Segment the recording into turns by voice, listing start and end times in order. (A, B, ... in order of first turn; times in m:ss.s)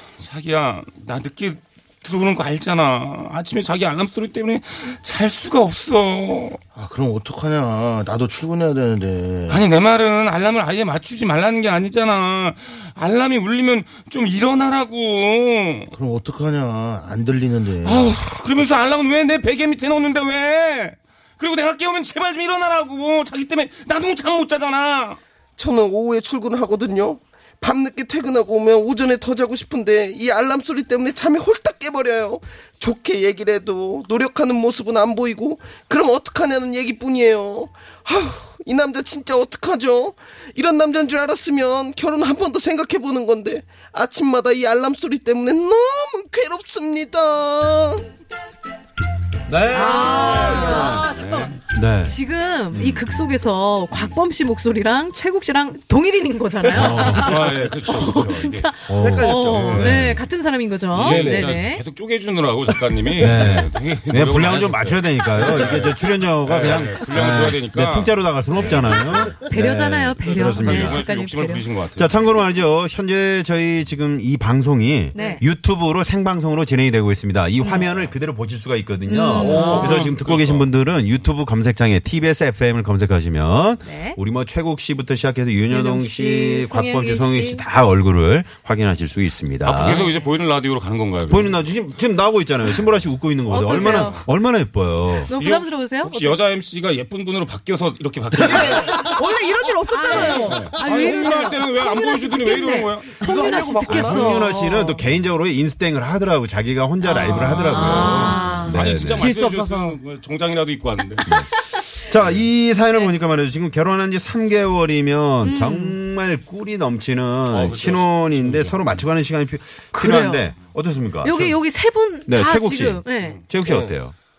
0:00.2-0:06.6 A
0:06.8-0:09.6 B
0:09.5-0:15.9 A
0:15.9-0:18.1 B
0:17.8-0:25.2 A
0:25.6-0:48.0 C
0:49.5-0:50.4 D
0:49.7-0:51.5 E
0:50.0-0:51.0 F
0:50.1-0:51.6 A
0:51.7-0:52.2 D
0:52.0-1:01.8 F
0:52.7-0:53.1 D
0:56.7-0:57.4 D
0:56.9-0:58.7 A
0:58.9-1:00.3 D
0:59.0-0:59.9 C
0:59.4-1:00.0 A
1:00.9-1:09.3 A
1:01.0-1:01.5 C
1:03.2-1:11.0 D
1:09.3-1:11.6 F
1:10.3-1:12.3 A
1:12.0-1:30.1 D
1:15.1-1:15.4 F
1:17.6-1:17.9 F
1:19.1-1:20.1 F
1:19.4-1:20.7 A
1:19.4-1:19.9 C
1:23.8-1:24.2 F
1:25.7-1:27.6 F
1:29.6-1:31.6 A
1:31.3-1:35.3 D
1:33.5-1:34.2 F
1:33.8-1:34.2 A
1:35.3-1:36.4 F
1:35.3-1:39.2 A
1:38.4-1:40.7 E
1:39.9-1:45.0 F
1:40.0-1:43.2 A
1:43.2-1:44.4 C
1:43.9-1:49.3 D
1:47.1-1:48.6 F
1:47.2-1:50.0 E
1:47.3-1:51.4 A
1:52.0-2:01.6 D
1:55.4-1:56.0 F
1:57.5-1:59.0 A
1:59.9-2:00.5 F
2:01.2-2:03.4 F
2:02.3-2:04.1 D
2:03.6-2:03.9 C